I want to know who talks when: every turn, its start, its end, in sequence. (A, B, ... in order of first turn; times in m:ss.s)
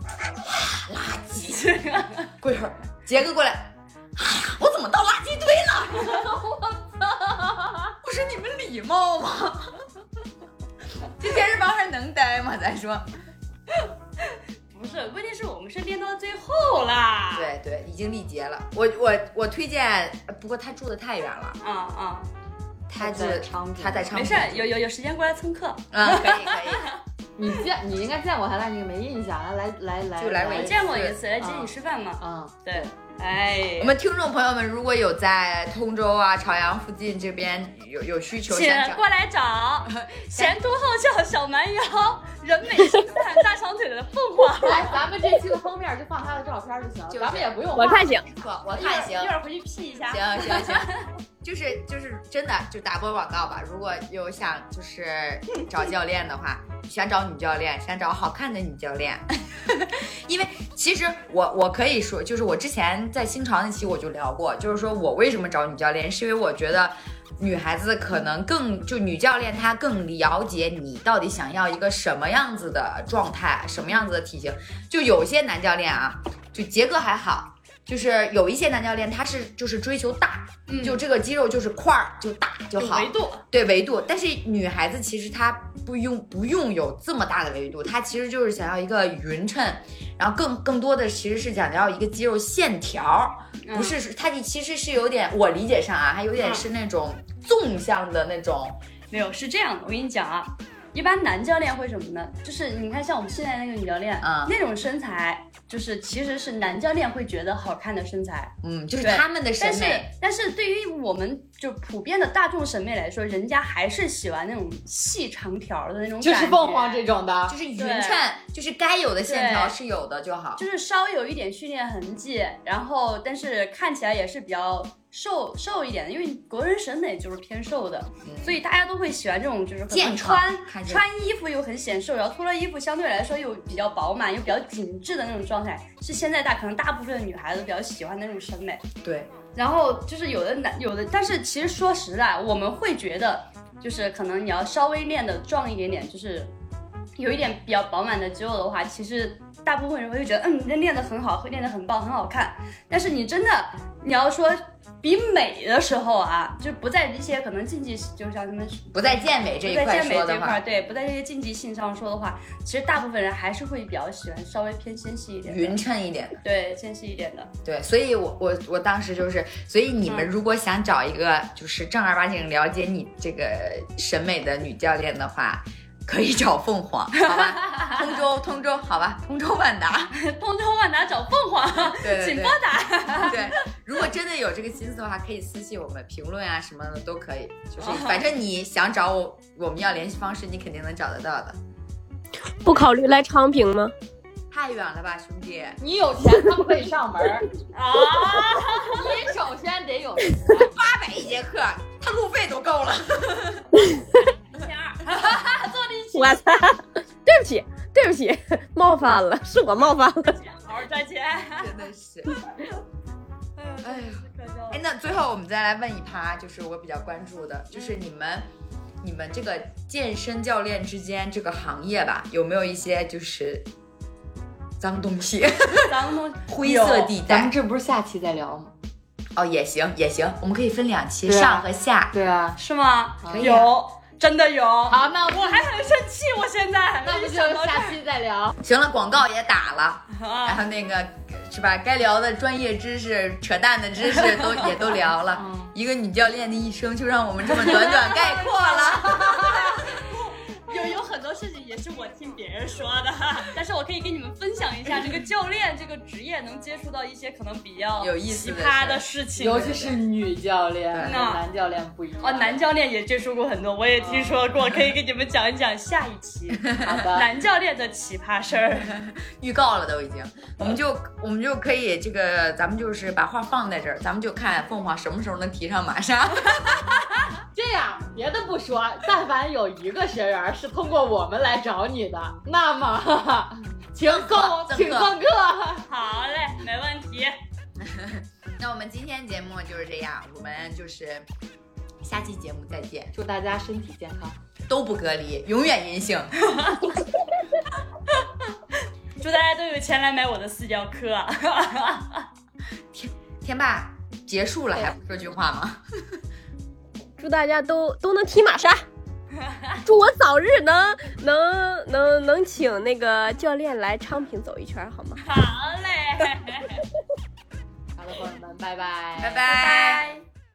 0:00.2-0:01.8 A
0:01.6-0:02.3 B
0:02.4-0:06.4 A
0:08.0-0:09.8 A
0:11.2-0:13.1 A
0:13.8-0:17.5 B
0:17.3-0:21.6 A
0:21.6-0:22.3 B
0:22.9-0:24.8 A
0:23.0-0:24.1 C
0:24.1-0:27.0 B
0:25.9-0:26.9 A
0:27.4-0:30.8 C
0:30.2-0:31.2 A
0:30.5-0:34.0 B
0:31.4-0:32.9 C
0:33.8-0:39.0 A
0:38.5-0:45.0 B
0:39.9-0:40.6 A
0:44.6-0:48.1 C
0:47.1-0:49.4 A
0:47.8-0:48.3 D
0:48.7-0:51.1 B
0:50.1-1:38.8 A
1:20.7-1:21.0 B
1:22.8-1:23.4 B
1:33.6-1:34.0 B
1:39.1-1:57.0 B
1:44.2-1:44.5 A
1:48.6-1:50.1 A
1:56.2-1:57.6 C
1:57.5-2:00.6 A
1:57.8-1:58.2 B
1:59.2-1:59.8 B
2:00.6-2:18.8 B
2:08.2-2:08.6 A
2:09.9-2:11.0 A
2:19.0-2:19.3 A
2:19.6-2:26.5 B
2:27.2-2:45.8 B
2:38.9-2:40.6 A
2:45.4-2:46.4 A
2:46.4-2:47.5 B
2:47.6-3:00.1 A
2:57.3-2:58.0 B
3:00.1-3:03.7 B
3:01.8-3:11.6 A
3:07.8-3:08.3 B
3:12.5-3:13.9 D
3:14.5-3:15.8 A
3:15.8-3:17.5 C
3:17.7-3:19.0 B
3:18.8-3:20.7 C
3:20.6-3:23.7 A
3:23.9-3:24.2 D
3:24.2-3:26.5 B
3:26.2-3:30.4 D
3:30.2-3:31.8 B
3:31.6-3:32.4 A
3:33.6-3:34.8 B
3:33.8-3:38.5 A
3:39.0-3:43.7 A
3:44.8-3:47.6 A
3:45.7-3:47.1 B
3:47.2-3:48.7 C
3:49.4-3:52.1 A
3:51.3-3:52.6 C
3:52.6-3:58.0 B
3:53.2-3:53.6 C
3:53.3-3:53.7 A
3:54.9-3:55.7 C
3:57.0-3:58.6 C
3:58.6-4:09.9 A
4:00.1-4:00.6 B
4:05.3-4:05.7 C
4:07.5-4:20.0 B
4:18.0-4:19.0 A
4:19.4-4:22.6 C
4:20.9-4:21.2 A
4:21.0-4:21.4 B
4:22.2-4:29.0 B
4:24.0-4:24.3 C
4:26.6-4:27.1 A
4:26.8-4:27.3 C
4:28.8-4:36.9 A
4:37.5-4:45.8 C
4:44.0-4:45.2 A
4:45.9-4:47.4 B
4:47.8-4:51.3 A
4:52.0-4:53.1 A
4:53.1-4:54.4 C
4:54.7-4:56.4 A
4:56.4-4:57.0 B
4:59.2-5:02.3 B
5:02.9-5:06.2 A
5:07.2-5:08.8 D
5:09.4-5:09.8 B
5:09.8-5:15.2 D
5:15.2-5:16.8 B
5:18.0-5:19.4 C
5:19.2-5:20.1 A
5:19.5-5:20.2 B